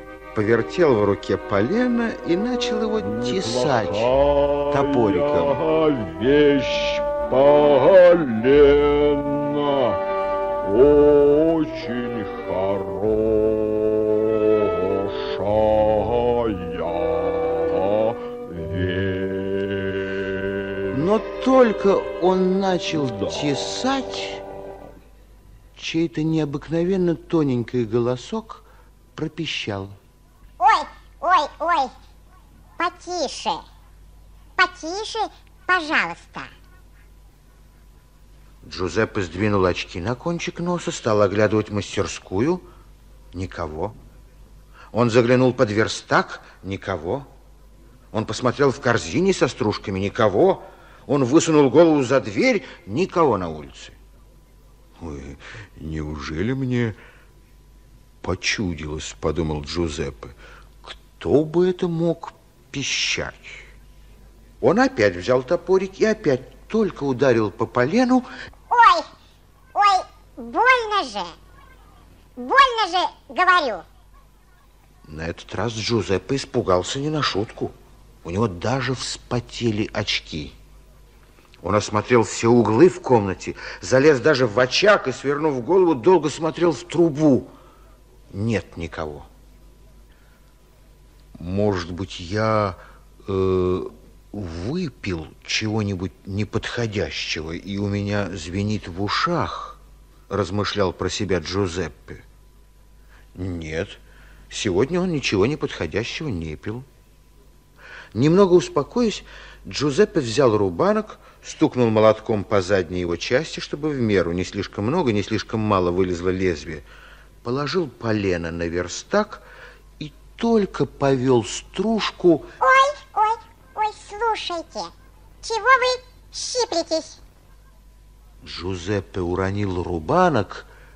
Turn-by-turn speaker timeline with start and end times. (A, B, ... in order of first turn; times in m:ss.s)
0:00.3-0:04.1 A
0:03.0-0:10.0 B
0:04.7-0:05.6 A
0:10.6-0:20.9 B
0:20.9-0:24.4 A
0:25.8-0:30.0 A
0:30.6-0:31.9 C
0:32.8-0:33.6 C
0:34.6-0:36.5 C
0:38.6-0:42.6 A
0:43.3-0:43.9 A
0:44.9-0:47.3 A
0:48.1-0:54.0 A
0:55.0-0:57.0 A
0:58.2-1:03.6 A
1:04.6-1:08.3 A
1:08.7-1:09.1 C
1:09.7-1:11.4 C
1:12.4-1:13.8 C
1:15.0-1:20.6 A
1:21.6-1:27.5 A
1:28.3-1:29.3 A
1:31.4-1:42.2 A
1:43.3-1:44.0 A
1:44.5-1:46.8 A
1:48.1-1:56.8 A
1:57.4-1:59.4 A
2:00.0-2:02.5 A
2:02.6-2:07.2 C
2:08.4-2:10.7 A